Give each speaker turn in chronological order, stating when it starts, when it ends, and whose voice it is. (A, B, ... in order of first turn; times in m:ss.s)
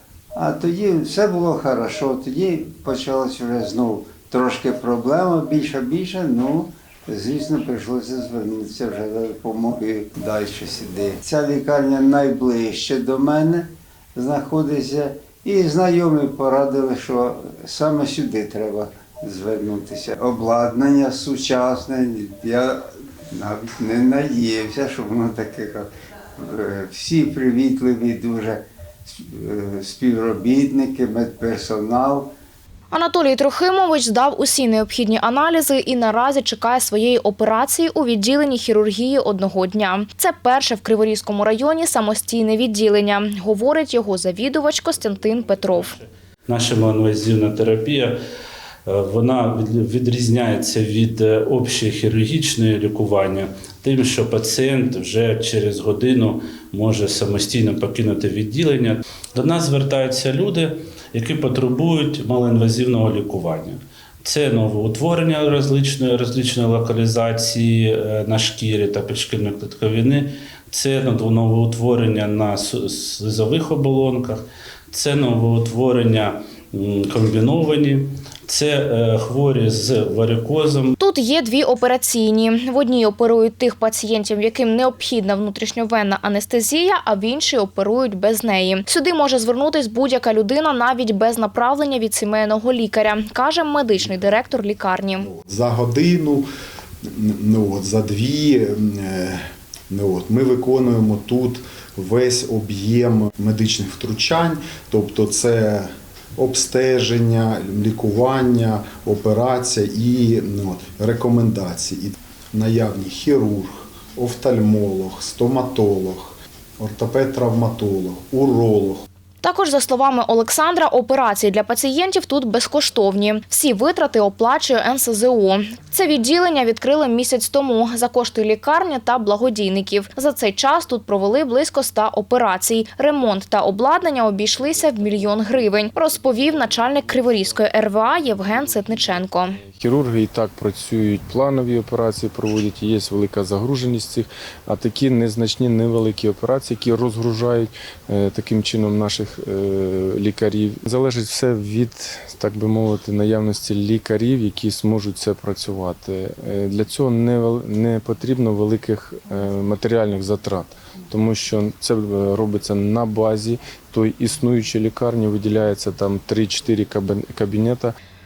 0:00.3-0:32.3 A
0:32.9-0:46.0 B
0:45.3-0:48.1 C
0:48.8-1:20.9 C
1:21.0-1:35.3 B
1:35.2-1:36.5 D
1:37.1-1:59.0 D
1:59.4-2:19.6 B
2:14.7-2:47.9 E